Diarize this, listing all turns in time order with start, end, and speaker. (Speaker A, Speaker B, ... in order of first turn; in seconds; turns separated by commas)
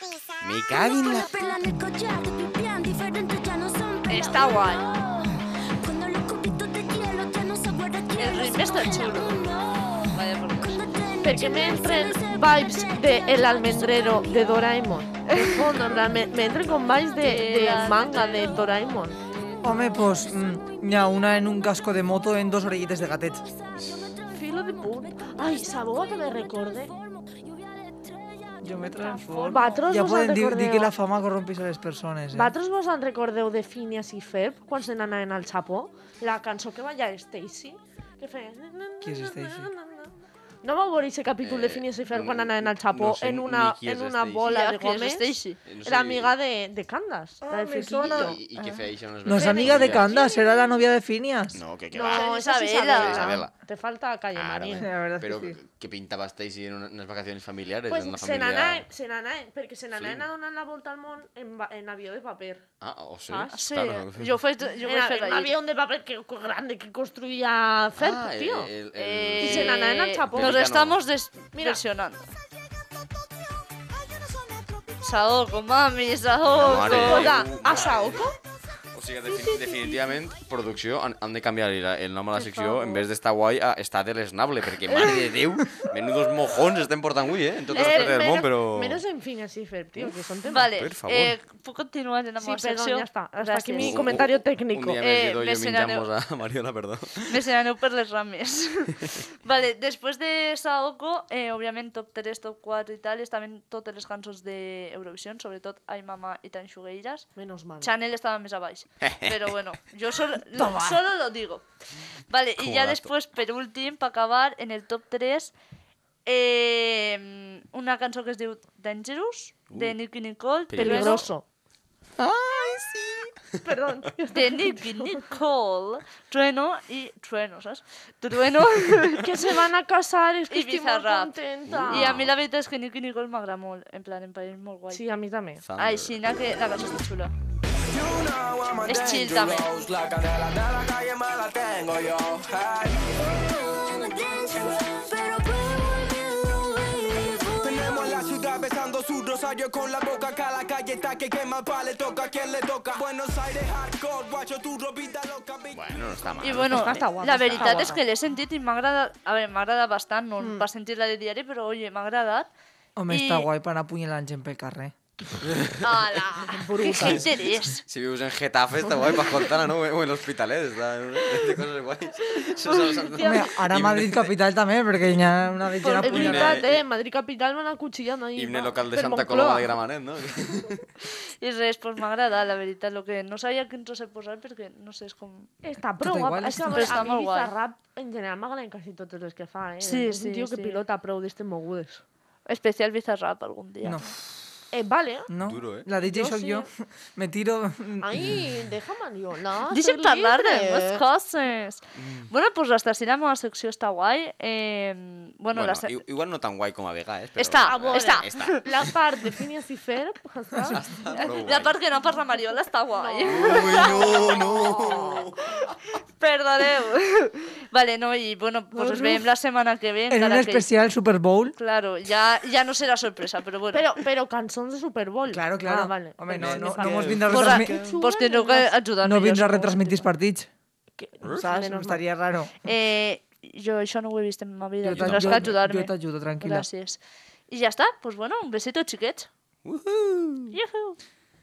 Speaker A: 0.4-1.4, Speaker B: 0.6-15.0, Speaker C: 4.1-4.9, Speaker C: 8.2-9.5, Speaker C: 10.1-10.9, Speaker D: 11.2-19.2, Speaker C: 15.3-15.7, Speaker B: 15.8-17.1, Speaker C: 17.2-18.6, Speaker B: 18.4-29.4, Speaker E: 19.6-23.4, Speaker A: 23.8-24.1, Speaker D: 24.3-26.9, Speaker E: 28.6-32.5, Speaker C: 29.0-29.9, Speaker D: 29.5-30.9, Speaker D: 32.3-48.4, Speaker E: 39.0-39.7, Speaker A: 41.4-44.5, Speaker C: 44.5-45.6, Speaker A: 45.7-46.4, Speaker E: 47.4-48.4, Speaker A: 48.0-50.1, Speaker C: 48.6-48.9, Speaker E: 49.2-51.6, Speaker D: 49.3-50.8, Speaker A: 51.5-52.3, Speaker D: 51.9-54.9, Speaker C: 52.0-53.4, Speaker A: 52.9-53.5, Speaker A: 54.4-58.9, Speaker E: 54.8-55.6, Speaker D: 57.9-62.6, Speaker A: 60.0-60.3, Speaker A: 62.8-64.4, Speaker D: 63.3-63.6, Speaker C: 63.5-65.6, Speaker D: 64.8-68.7, Speaker A: 68.0-71.0, Speaker C: 69.0-72.3, Speaker D: 69.4-70.7, Speaker D: 71.5-71.8, Speaker C: 75.0-77.5, Speaker A: 76.4-78.2, Speaker D: 76.7-78.3, Speaker A: 78.9-89.0, Speaker C: 82.4-83.0, Speaker C: 87.7-88.4, Speaker D: 87.7-90.7, Speaker C: 90.5-94.0, Speaker A: 90.7-91.4, Speaker D: 92.4-95.0, Speaker A: 93.8-97.4, Speaker C: 95.0-96.1, Speaker C: 97.3-107.3, Speaker D: 107.4-107.9, Speaker C: 107.8-111.6, Speaker A: 109.0-109.5, Speaker D: 110.6-111.0, Speaker C: 112.3-115.5, Speaker A: 112.6-113.1, Speaker C: 116.3-121.2, Speaker A: 119.7-120.0, Speaker A: 120.7-121.3, Speaker D: 120.8-121.4, Speaker A: 122.2-123.4, Speaker D: 123.6-125.2, Speaker C: 124.3-129.3, Speaker D: 129.2-132.2, Speaker C: 130.5-131.3, Speaker A: 131.7-132.3, Speaker C: 131.9-135.0, Speaker D: 134.9-135.6, Speaker A: 135.6-136.2, Speaker C: 135.8-137.3, Speaker F: 137.9-143.4, Speaker C: 138.9-139.7, Speaker B: 143.2-148.5, Speaker F: 147.6-156.0, Speaker A: 155.7-158.0, Speaker C: 156.4-162.5, Speaker D: 156.7-158.0, Speaker E: 163.0-164.9, Speaker C: 163.1-163.5, Speaker A: 165.4-166.2, Speaker C: 165.8-167.8, Speaker D: 166.5-167.3, Speaker A: 167.0-174.3, Speaker C: 172.6-173.6, Speaker E: 173.2-176.6, Speaker C: 175.8-176.7, Speaker D: 176.0-179.7, Speaker A: 176.0-176.8, Speaker A: 178.4-180.9, Speaker C: 181.4-185.5, Speaker D: 185.6-192.0, Speaker E: 186.0-187.1, Speaker C: 186.7-187.5, Speaker C: 189.8-190.8, Speaker C: 192.5-194.1, Speaker E: 193.8-194.1, Speaker D: 194.7-195.3, Speaker E: 195.3-198.3, Speaker A: 195.4-195.9, Speaker D: 196.0-196.7, Speaker D: 198.0-201.0, Speaker C: 199.7-206.0, Speaker A: 202.0-202.3, Speaker A: 205.5-208.9, Speaker C: 207.4-208.6, Speaker D: 207.7-211.4, Speaker A: 210.7-211.8, Speaker C: 211.1-214.4, Speaker D: 212.1-215.2, Speaker A: 213.2-215.8, Speaker C: 216.2-220.7, Speaker D: 218.8-219.2, Speaker E: 220.1-221.6, Speaker C: 221.6-223.9, Speaker D: 223.7-228.7, Speaker E: 225.3-227.8, Speaker A: 226.4-228.0, Speaker C: 227.3-230.1, Speaker E: 229.0-230.5, Speaker D: 231.0-232.0, Speaker E: 231.2-232.5, Speaker C: 232.7-237.0, Speaker E: 234.8-236.7, Speaker A: 234.9-235.6, Speaker C: 237.5-239.3, Speaker A: 239.7-240.6, Speaker C: 240.5-241.0